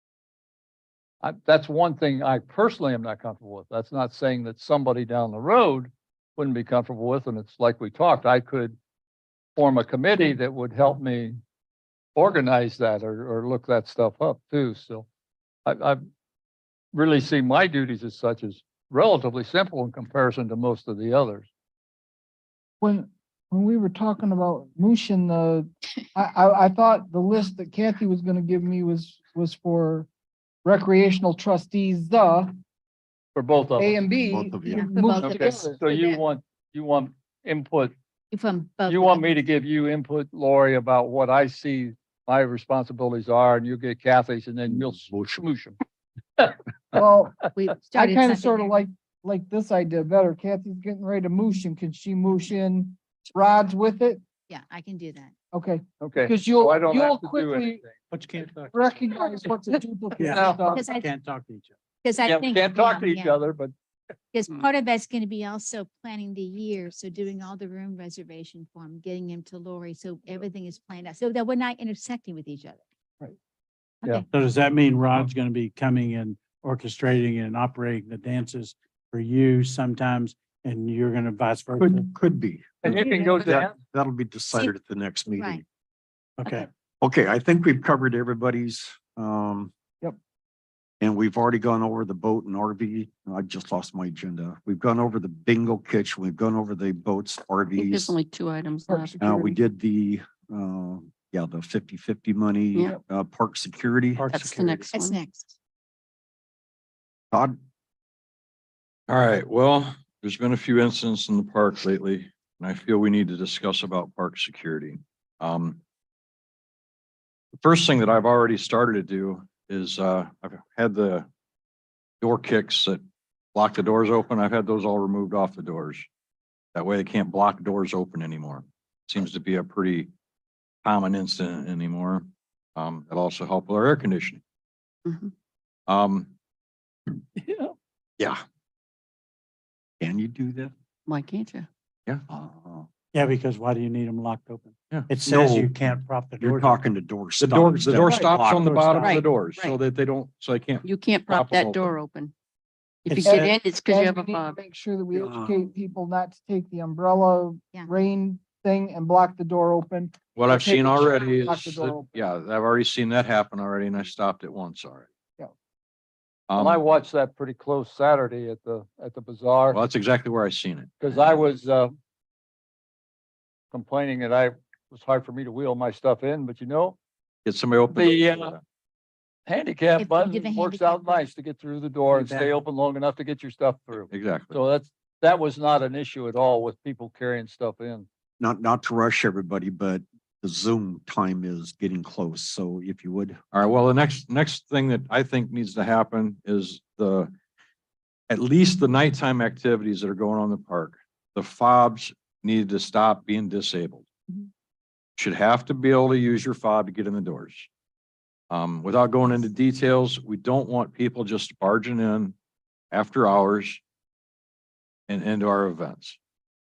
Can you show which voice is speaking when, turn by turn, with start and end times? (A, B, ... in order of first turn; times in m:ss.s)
0:01.2-0:08.8 A
0:09.6-0:11.4 A
0:12.1-0:15.1 A
0:15.6-0:16.0 A
0:16.9-0:21.5 A
0:22.8-0:25.6 B
0:26.2-0:30.1 B
0:30.6-0:32.5 B
0:33.3-0:34.0 A
0:33.8-0:35.7 B
0:34.3-0:34.9 C
0:34.7-0:36.2 D
0:35.2-0:37.9 A
0:38.3-0:39.3 D
0:38.9-0:45.8 A
0:44.7-0:45.4 C
0:46.4-0:47.0 A
0:47.0-0:47.4 B
0:47.5-0:48.7 D
0:48.0-0:54.2 B
0:54.5-0:55.3 D
0:55.5-0:57.8 B
0:56.0-0:57.9 A
0:58.1-0:59.3 E
0:58.7-1:00.8 B
1:00.2-1:01.8 E
1:00.2-1:00.6 A
1:00.7-1:01.0 D
1:02.0-1:03.4 D
1:02.2-1:03.7 A
1:04.3-1:12.8 D
1:14.3-1:22.1 E
1:21.8-1:25.6 C
1:22.8-1:23.7 A
1:25.4-1:25.6 D
1:26.4-1:26.7 E
1:27.0-1:29.7 C
1:31.0-1:38.1 C
1:37.8-1:39.5 F
1:38.9-1:39.1 B
1:39.2-1:44.3 C
1:44.2-1:44.9 E
1:44.3-1:45.2 F
1:44.9-1:45.5 D
1:49.1-1:55.8 G
1:57.5-2:01.3 G
2:02.2-2:03.0 G
2:03.5-2:06.0 G
2:06.7-2:10.1 G
2:10.8-2:14.4 G
2:15.0-2:15.3 F
2:15.9-2:16.3 G
2:17.4-2:17.7 A
2:20.0-2:20.7 C
2:21.1-2:21.7 F
2:22.3-2:22.9 C
2:23.1-2:26.8 E
2:25.2-2:25.7 C
2:26.4-2:28.6 C
2:27.4-2:32.0 G
2:27.5-2:29.2 E
2:29.0-2:29.8 D
2:30.8-2:32.3 F
2:33.0-2:34.6 F
2:33.1-2:33.6 E
2:33.2-2:42.0 B
2:35.2-2:35.5 E
2:40.3-2:45.0 G
2:46.5-2:46.9 G
2:46.6-2:49.8 A
2:49.7-2:51.4 G
2:51.0-2:51.9 A
2:53.7-2:57.0 A
2:57.4-2:58.6 G
2:57.9-2:58.5 A
2:59.4-3:08.1 A
3:00.0-3:01.3 D
3:02.1-3:02.5 E
3:04.1-3:04.6 G
3:08.4-3:13.4 C
3:13.5-3:17.3 G
3:18.3-3:24.0 G
3:25.2-3:27.7 G
3:28.5-3:32.3 G
3:32.9-3:33.8 G
3:35.1-3:36.2 G